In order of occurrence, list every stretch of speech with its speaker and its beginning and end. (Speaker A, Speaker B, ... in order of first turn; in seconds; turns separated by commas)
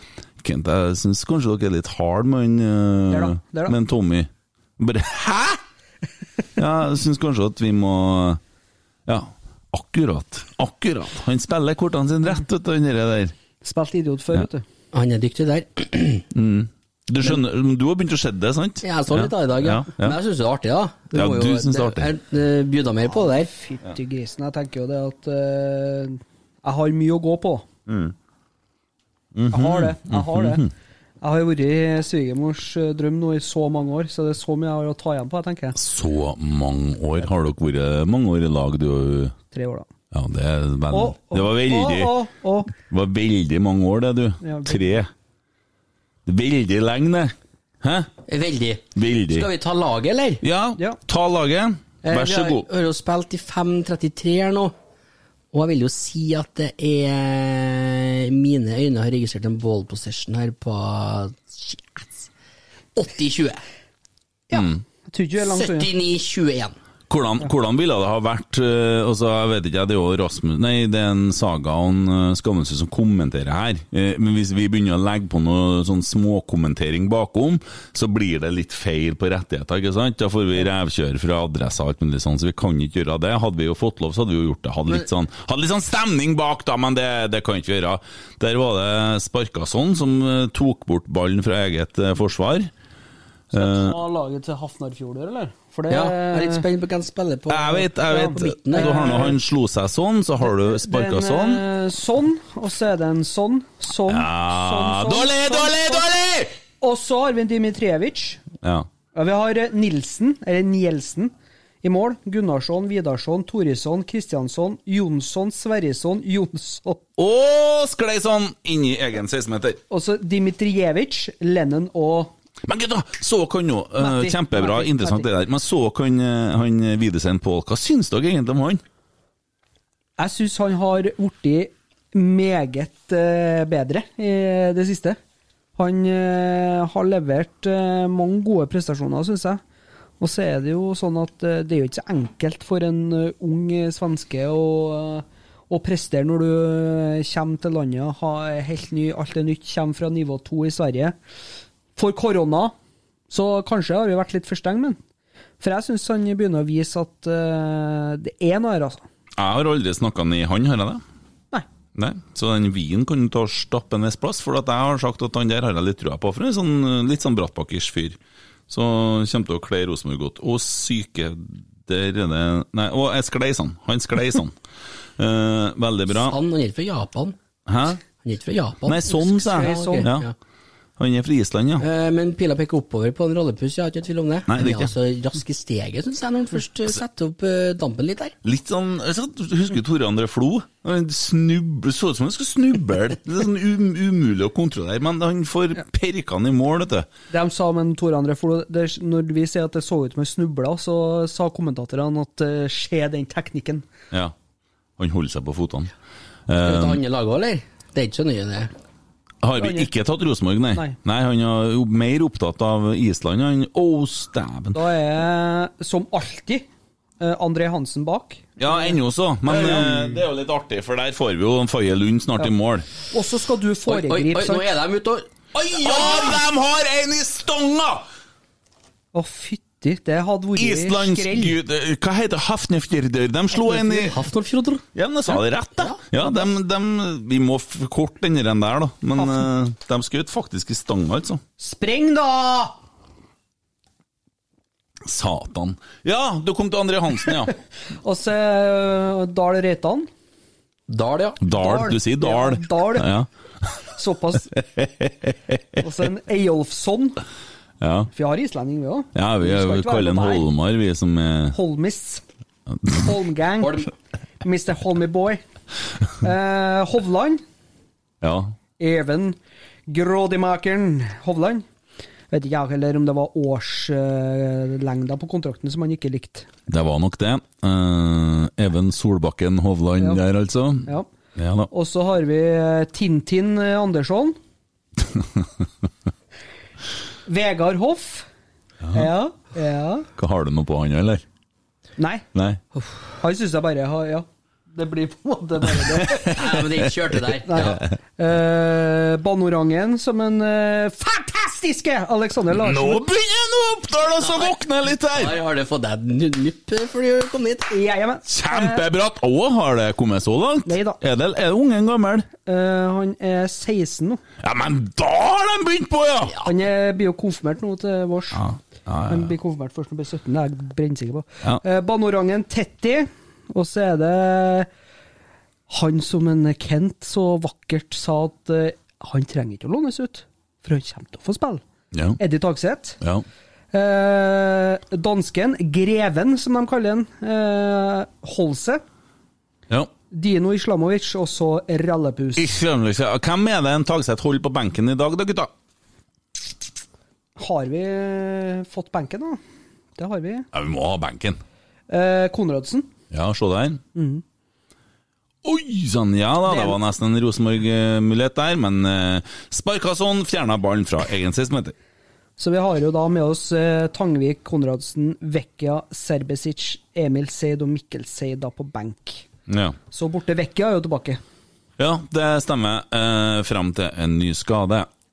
Speaker A: 0.4-5.6, Speaker B: 3.1-3.8, Speaker A: 6.6-8.4, Speaker A: 9.1-13.3, Speaker B: 13.6-14.6, Speaker C: 14.9-16.3, Speaker A: 16.3-20.2, Speaker C: 18.8-23.5, Speaker A: 21.1-22.1, Speaker B: 23.1-27.6, Speaker A: 27.9-28.1, Speaker A: 29.4-30.7, Speaker B: 29.5-30.6, Speaker B: 31.2-35.8, Speaker A: 35.8-39.4, Speaker B: 39.5-39.9, Speaker A: 40.1-42.1, Speaker B: 40.9-42.7, Speaker A: 42.7-45.1, Speaker B: 44.4-45.0, Speaker A: 46.3-48.1, Speaker C: 48.3-50.4, Speaker A: 49.0-49.5, Speaker A: 50.4-52.6, Speaker C: 52.0-54.7, Speaker C: 55.5-62.3, Speaker C: 63.0-63.6, Speaker B: 64.5-65.9, Speaker A: 64.5-64.8, Speaker C: 65.4-66.8, Speaker A: 67.1-92.7, Speaker A: 93.5-94.0, Speaker B: 93.5-96.7, Speaker C: 95.9-99.3, Speaker A: 97.5-101.6, Speaker B: 98.1-99.4, Speaker B: 100.5-106.1, Speaker A: 104.1-106.5, Speaker B: 106.8-108.4, Speaker A: 108.6-108.9, Speaker B: 109.1-117.0, Speaker A: 117.2-119.8, Speaker B: 119.9-122.3, Speaker A: 122.7-128.8, Speaker B: 124.0-125.3, Speaker B: 130.2-135.2, Speaker B: 135.8-139.6, Speaker B: 140.2-151.2, Speaker B: 152.0-152.8, Speaker B: 153.3-155.0, Speaker B: 155.6-159.1, Speaker A: 159.4-161.0, Speaker A: 162.0-168.2, Speaker A: 168.7-174.6, Speaker A: 175.2-176.4, Speaker C: 176.2-177.4, Speaker A: 177.7-178.0, Speaker C: 178.1-180.3, Speaker A: 178.8-180.3, Speaker B: 179.4-180.1, Speaker A: 181.0-181.8, Speaker C: 181.8-188.3, Speaker A: 184.5-184.9, Speaker A: 188.4-197.1, Speaker B: 197.3-203.8, Speaker A: 205.0-205.9, Speaker A: 206.5-207.0, Speaker C: 206.6-208.7, Speaker A: 209.4-214.8, Speaker B: 209.6-209.9, Speaker B: 214.7-216.7, Speaker B: 217.2-220.2, Speaker A: 218.6-222.8, Speaker B: 223.1-224.7, Speaker C: 223.9-226.4, Speaker A: 225.8-228.1, Speaker B: 229.1-231.6, Speaker A: 230.6-234.2, Speaker C: 233.6-234.8, Speaker A: 234.9-241.4, Speaker B: 239.2-239.5, Speaker B: 241.6-242.8, Speaker A: 245.1-247.6, Speaker B: 248.0-250.1, Speaker C: 250.9-251.4, Speaker A: 251.4-253.3, Speaker B: 251.5-253.1, Speaker B: 254.0-254.6, Speaker A: 254.6-255.3, Speaker B: 255.8-257.2, Speaker A: 257.8-258.1, Speaker B: 258.1-260.5, Speaker A: 259.1-261.6, Speaker B: 261.5-262.2, Speaker B: 262.9-263.9, Speaker C: 263.6-263.9, Speaker B: 264.4-265.4, Speaker B: 266.2-267.4, Speaker A: 268.2-268.6, Speaker B: 268.8-269.4, Speaker B: 269.9-271.6, Speaker B: 272.3-276.5, Speaker A: 276.7-281.7, Speaker B: 281.7-284.4, Speaker B: 287.3-288.3, Speaker A: 288.8-289.1, Speaker B: 288.9-290.1, Speaker A: 290.2-291.2, Speaker B: 292.0-292.2, Speaker A: 292.4-292.6, Speaker B: 293.2-296.6, Speaker A: 296.2-296.8, Speaker C: 296.2-297.8, Speaker B: 297.4-303.1, Speaker A: 302.5-305.4, Speaker C: 304.2-304.6, Speaker C: 305.1-307.7, Speaker B: 307.7-308.8, Speaker A: 308.3-312.3, Speaker B: 310.7-311.0, Speaker B: 312.4-314.2, Speaker A: 314.4-316.4, Speaker B: 316.4-318.4, Speaker A: 318.3-319.3, Speaker B: 319.1-324.7, Speaker B: 325.7-331.6, Speaker A: 331.9-332.2, Speaker B: 332.2-333.0, Speaker B: 333.7-338.8, Speaker B: 340.1-342.5, Speaker A: 342.4-345.5, Speaker B: 347.4-349.4, Speaker B: 350.0-350.5, Speaker A: 350.5-351.4, Speaker B: 351.9-352.9, Speaker A: 353.1-353.8, Speaker B: 353.9-354.2, Speaker A: 355.4-361.7, Speaker B: 356.4-356.8, Speaker B: 362.4-369.2, Speaker A: 369.5-369.8, Speaker B: 369.9-371.2, Speaker A: 371.8-374.9